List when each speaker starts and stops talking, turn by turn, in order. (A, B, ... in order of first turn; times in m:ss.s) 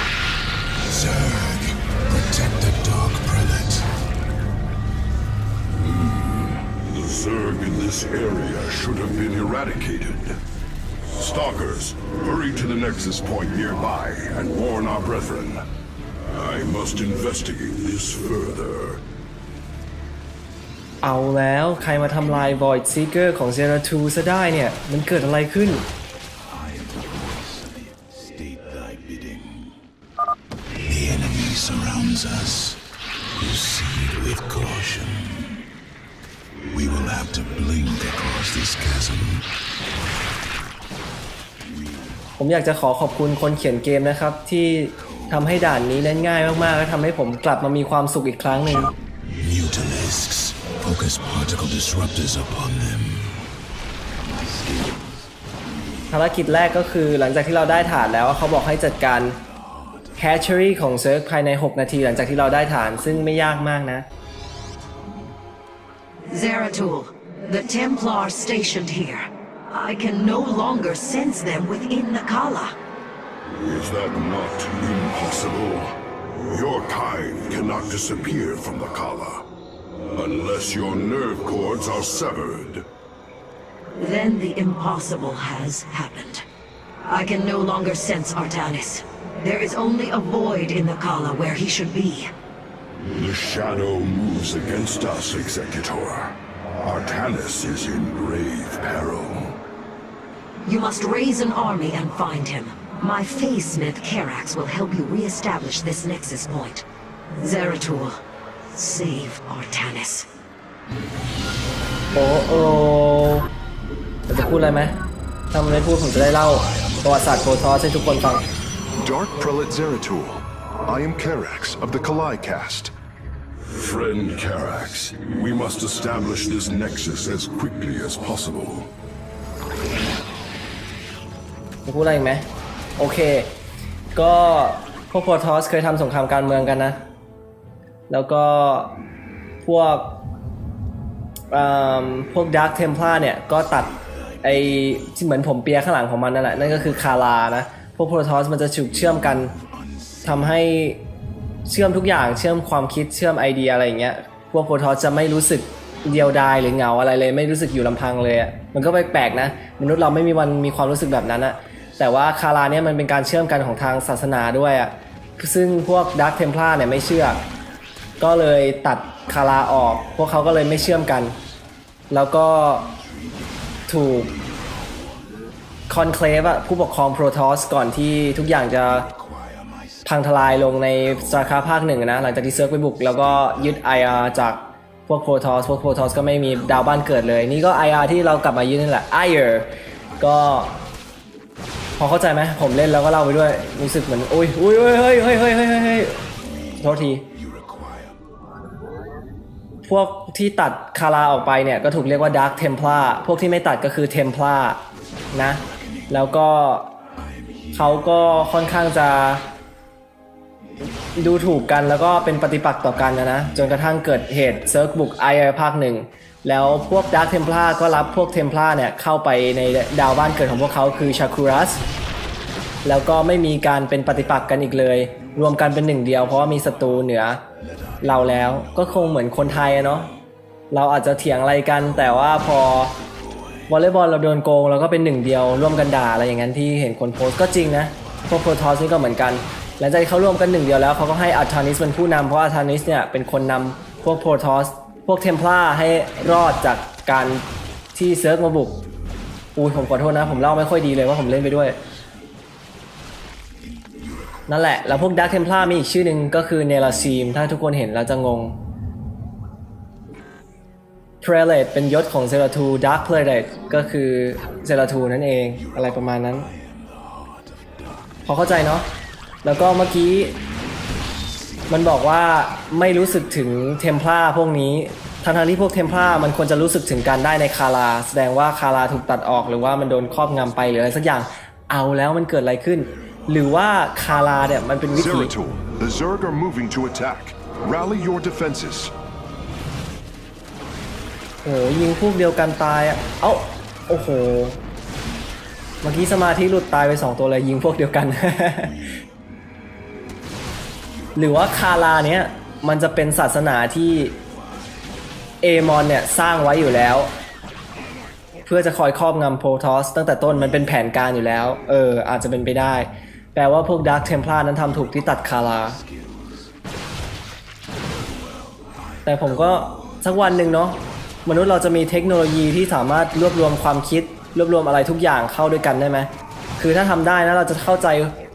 0:00.9-0:03.8 A
0:05.8-0:10.4 B
0:11.2-0:15.6 B
0:16.3-0:19.0 B
0:21.0-0:25.9 C
0:26.6-0:29.8 A
0:30.8-0:32.8 A
0:33.4-0:35.6 A
0:36.7-0:39.5 A
0:42.4-0:48.9 C
0:49.4-0:53.4 A
0:54.4-0:55.2 A
0:56.1-0:59.4 C
1:00.2-1:04.0 C
1:06.3-1:12.7 D
1:13.6-1:16.0 B
1:16.5-1:19.4 B
1:20.1-1:22.8 B
1:24.0-1:26.4 D
1:27.1-1:32.3 D
1:33.1-1:39.6 B
1:40.6-1:46.8 D
1:47.4-1:48.2 D
1:48.7-1:50.3 D
1:52.1-1:53.5 C
1:54.3-1:55.0 C
1:55.5-1:58.5 C
1:59.0-2:02.9 E
2:03.7-2:08.9 B
2:11.8-2:12.4 C
2:13.0-2:13.5 C
2:14.1-2:17.0 C
2:18.1-2:19.0 C
2:19.6-2:20.2 C
2:21.5-2:29.6 C
2:30.2-2:31.0 C
2:31.6-2:47.4 C
2:48.2-2:51.4 C
2:52.1-2:52.9 C
2:53.9-2:54.4 C
2:55.9-2:59.1 C
2:59.4-2:59.9 A
3:00.0-3:10.8 C
3:12.0-3:16.2 C
3:16.8-3:17.4 C
3:17.5-3:18.1 A
3:19.8-3:27.0 C
3:27.7-3:29.4 C
3:31.1-3:41.8 C
3:42.8-3:47.4 C
3:48.0-3:50.1 C
3:50.7-3:52.9 C
3:53.7-4:08.8 C
4:09.6-4:11.8 C
4:14.5-4:18.6 C
4:21.2-4:26.5 C
4:26.5-4:28.0 A
4:28.2-4:28.9 C
4:29.4-4:30.4 C
4:31.7-4:45.3 C
4:44.9-4:48.9 E
4:51.4-4:54.6 C
4:55.8-4:58.8 C
5:01.1-5:04.2 C
5:05.4-5:07.1 C
5:08.4-5:15.8 C
5:15.8-5:16.4 A
5:19.0-5:28.1 C